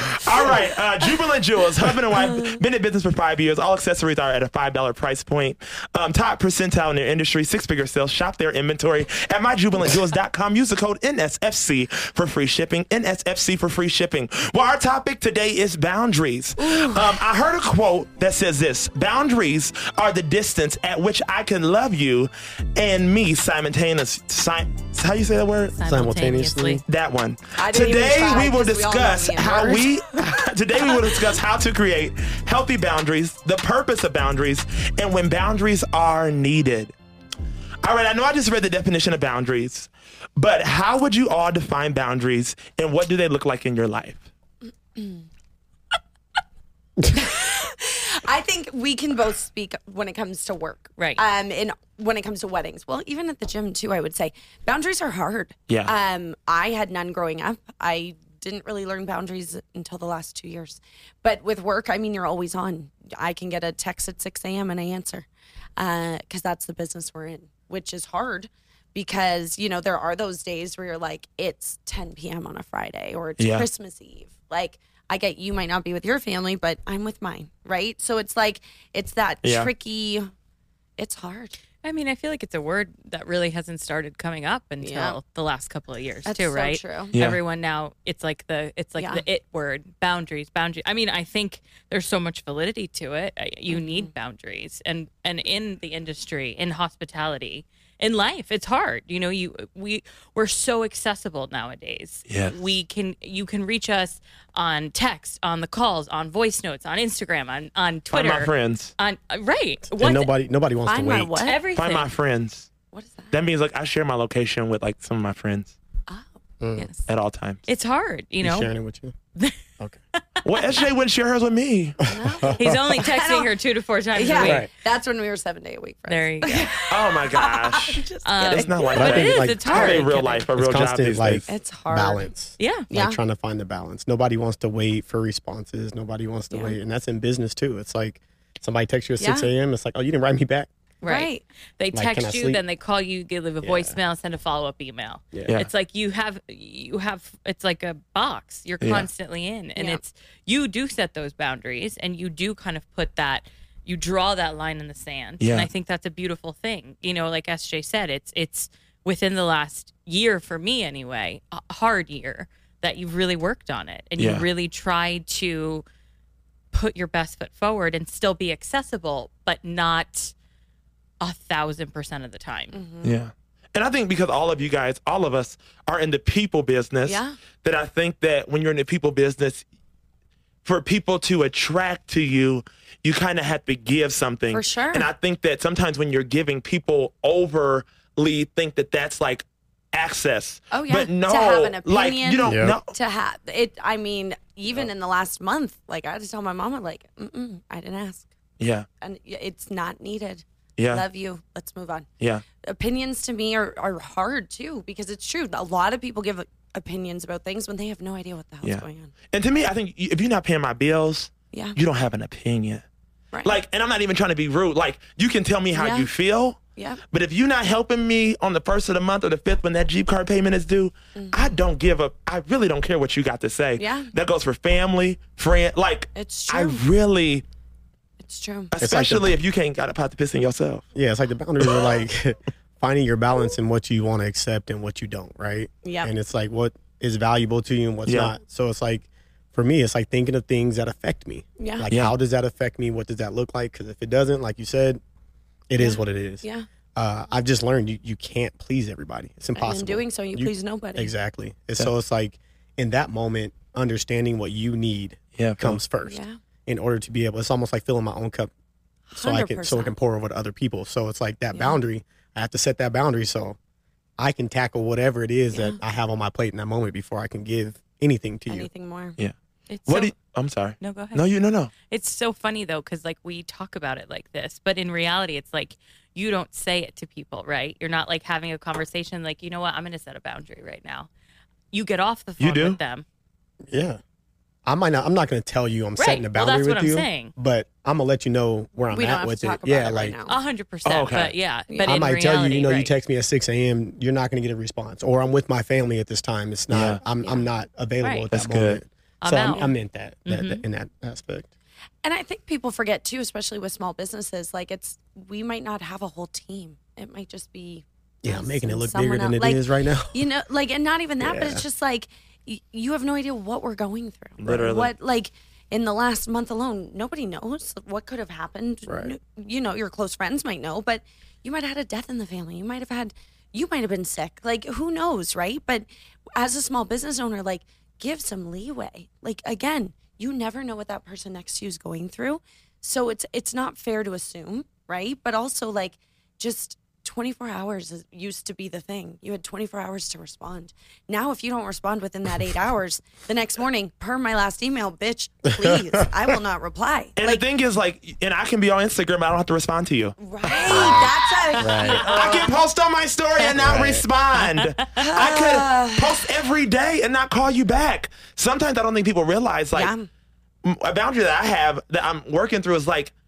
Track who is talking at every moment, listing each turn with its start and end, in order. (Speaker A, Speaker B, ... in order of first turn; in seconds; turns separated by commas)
Speaker A: 0.1-25.7, Speaker B: 2.2-2.6, Speaker B: 16.6-17.2, Speaker C: 25.7-26.8, Speaker D: 25.8-26.8, Speaker A: 26.9-36.9, Speaker B: 27.6-29.9, Speaker B: 30.9-31.1, Speaker A: 37.8-44.3, Speaker B: 45.0-45.2, Speaker B: 47.1-80.3, Speaker A: 55.7-55.9, Speaker A: 73.4-73.7, Speaker A: 79.4-79.7, Speaker B: 81.0-81.5, Speaker C: 81.8-110.3, Speaker B: 84.8-85.2, Speaker B: 86.2-87.1, Speaker A: 87.1-87.4, Speaker B: 89.0-89.2, Speaker B: 93.7-94.1, Speaker A: 102.3-102.5, Speaker A: 108.1-108.9, Speaker D: 110.0-111.4, Speaker B: 110.8-111.6, Speaker C: 111.4-112.1, Speaker A: 111.7-112.7, Speaker B: 112.9-113.3, Speaker A: 113.3-115.7, Speaker D: 116.6-116.9, Speaker C: 116.8-117.1, Speaker A: 117.1-117.6, Speaker C: 117.7-118.7, Speaker D: 118.4-119.2, Speaker A: 120.4-122.0, Speaker D: 122.0-122.8, Speaker B: 122.0-123.5, Speaker C: 122.5-124.7, Speaker B: 124.1-130.0, Speaker D: 124.4-124.7, Speaker C: 126.1-126.8, Speaker A: 126.9-131.5, Speaker C: 128.2-130.5, Speaker D: 128.9-140.7, Speaker B: 131.5-132.3, Speaker C: 132.6-132.9, Speaker B: 132.9-133.2, Speaker B: 136.5-136.8, Speaker B: 139.2-139.5, Speaker C: 141.0-165.8, Speaker B: 141.0-141.4, Speaker D: 141.9-142.6, Speaker D: 143.6-143.9, Speaker A: 148.8-149.1, Speaker B: 149.8-150.0, Speaker A: 155.4-155.7, Speaker A: 164.2-164.4, Speaker C: 166.7-170.3, Speaker C: 171.2-172.8, Speaker B: 172.7-173.2, Speaker A: 173.0-179.6, Speaker B: 177.0-177.4, Speaker A: 180.6-192.9, Speaker B: 184.5-185.1, Speaker B: 190.7-198.3, Speaker D: 192.4-192.8, Speaker A: 198.6-198.8, Speaker B: 199.0-202.1, Speaker A: 200.8-201.0, Speaker B: 202.6-209.1, Speaker A: 208.6-212.8, Speaker B: 211.5-211.8, Speaker B: 213.3-213.6, Speaker A: 213.4-216.6, Speaker B: 215.7-216.1, Speaker B: 216.8-217.0, Speaker A: 217.1-227.4, Speaker B: 221.2-221.5, Speaker B: 223.8-224.1, Speaker B: 226.1-226.8, Speaker B: 228.2-228.7, Speaker A: 228.7-230.8, Speaker D: 228.8-229.3, Speaker D: 230.9-245.0, Speaker B: 235.8-236.1, Speaker A: 238.1-238.3, Speaker B: 241.6-241.9, Speaker D: 245.7-258.5, Speaker B: 245.8-246.7, Speaker B: 249.6-251.1, Speaker A: 255.4-255.8, Speaker B: 256.0-256.4, Speaker B: 259.1-259.9, Speaker D: 259.2-263.6, Speaker B: 261.5-261.8, Speaker D: 264.2-268.7, Speaker B: 265.5-265.8, Speaker B: 268.5-269.2, Speaker C: 269.7-270.1, Speaker A: 269.9-271.7, Speaker C: 270.8-281.1, Speaker C: 281.7-283.0, Speaker A: 282.4-282.8, Speaker D: 283.7-284.0, Speaker D: 284.6-290.2, Speaker C: 286.0-287.3, Speaker B: 288.9-290.4, Speaker C: 290.3-292.9, Speaker A: 290.8-291.3, Speaker B: 291.7-292.1, Speaker D: 291.8-301.5, Speaker A: 296.7-297.0, Speaker B: 297.2-297.5, Speaker C: 298.0-298.3, Speaker A: 298.3-298.8, Speaker C: 299.2-299.7, Speaker C: 300.2-300.6, Speaker B: 302.0-347.4, Speaker D: 308.2-310.2, Speaker D: 311.2-311.6, Speaker A: 314.4-314.9, Speaker D: 318.9-319.1, Speaker D: 345.6-346.1, Speaker A: 347.2-351.1, Speaker B: 350.2-352.5, Speaker D: 350.7-352.0, Speaker C: 351.5-352.0, Speaker A: 351.9-359.9, Speaker D: 353.5-354.0, Speaker C: 354.3-354.9, Speaker B: 355.0-356.2, Speaker B: 359.7-360.1, Speaker A: 360.6-363.1